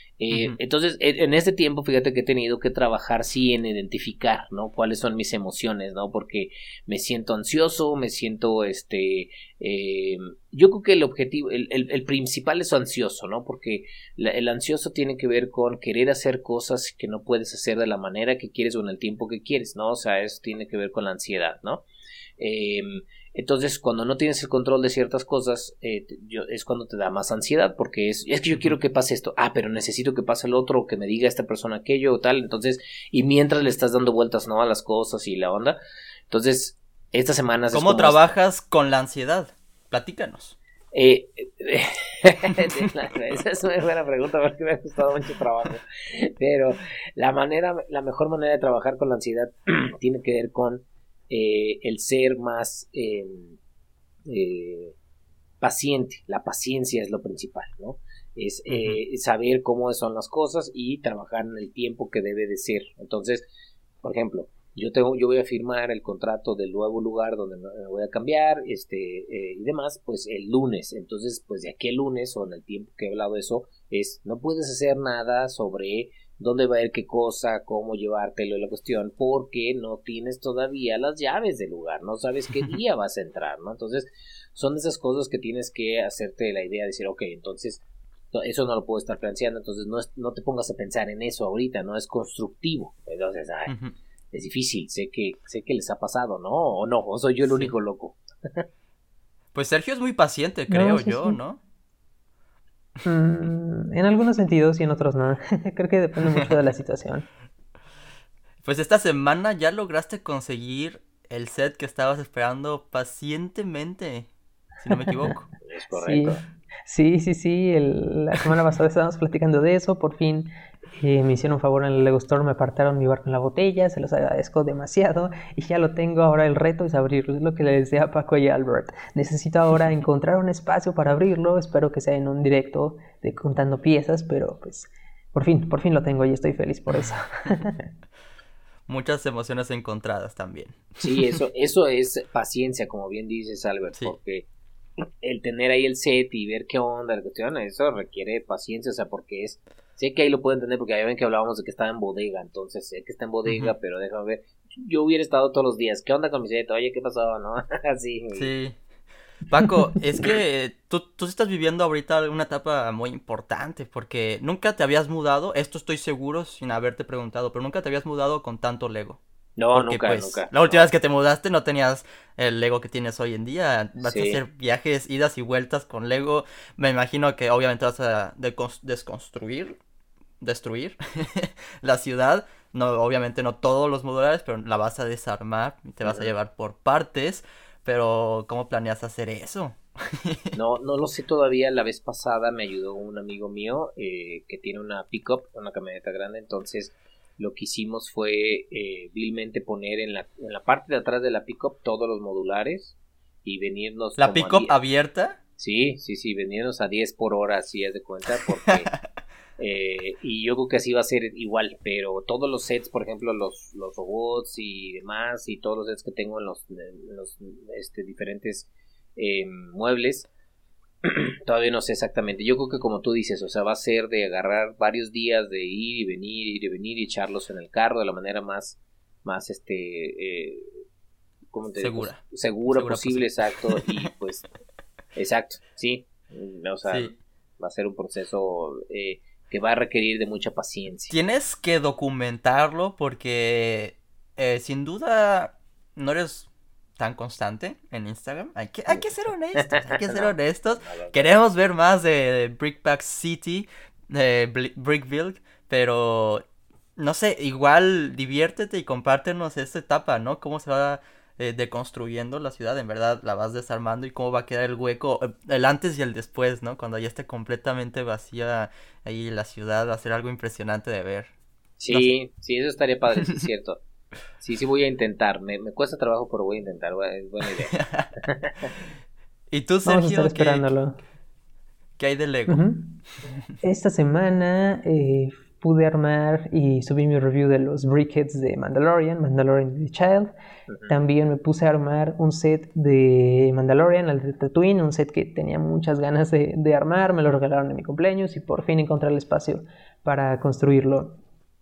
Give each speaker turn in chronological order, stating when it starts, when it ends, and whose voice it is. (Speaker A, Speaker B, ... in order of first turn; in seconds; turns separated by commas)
Speaker A: 0.2-21.8, Speaker B: 0.3-0.6, Speaker A: 22.4-35.8, Speaker A: 36.3-38.3, Speaker B: 37.7-40.6, Speaker A: 40.9-53.6, Speaker A: 54.3-55.0, Speaker A: 55.6-63.5, Speaker B: 58.7-59.0, Speaker A: 64.0-93.7, Speaker B: 93.7-94.0, Speaker A: 94.3-98.7, Speaker B: 97.5-97.7, Speaker B: 99.5-101.6, Speaker C: 100.7-101.4, Speaker C: 103.0-107.2, Speaker B: 108.6-114.3, Speaker B: 114.8-115.5, Speaker A: 115.6-116.4, Speaker C: 116.0-137.8, Speaker B: 138.9-141.2, Speaker A: 141.0-144.5, Speaker A: 145.2-158.5, Speaker B: 153.5-153.7, Speaker B: 158.3-158.8, Speaker B: 159.5-169.2, Speaker A: 169.6-170.8, Speaker B: 169.7-179.8, Speaker A: 174.0-174.4, Speaker B: 180.4-190.5, Speaker A: 186.0-186.3, Speaker A: 190.6-204.8, Speaker B: 204.2-205.4, Speaker A: 205.6-208.9, Speaker A: 209.6-220.3, Speaker A: 221.0-230.7, Speaker A: 231.5-234.5, Speaker B: 231.8-233.9, Speaker A: 235.2-241.1, Speaker B: 236.9-237.2, Speaker B: 241.1-256.4, Speaker A: 249.6-251.3, Speaker B: 257.0-271.3, Speaker A: 271.8-273.8, Speaker A: 274.4-278.7, Speaker B: 277.7-278.1, Speaker B: 279.5-280.6, Speaker C: 279.9-281.0, Speaker B: 282.0-282.6, Speaker C: 282.5-283.0, Speaker C: 283.6-290.3, Speaker A: 290.7-291.0, Speaker C: 290.9-301.2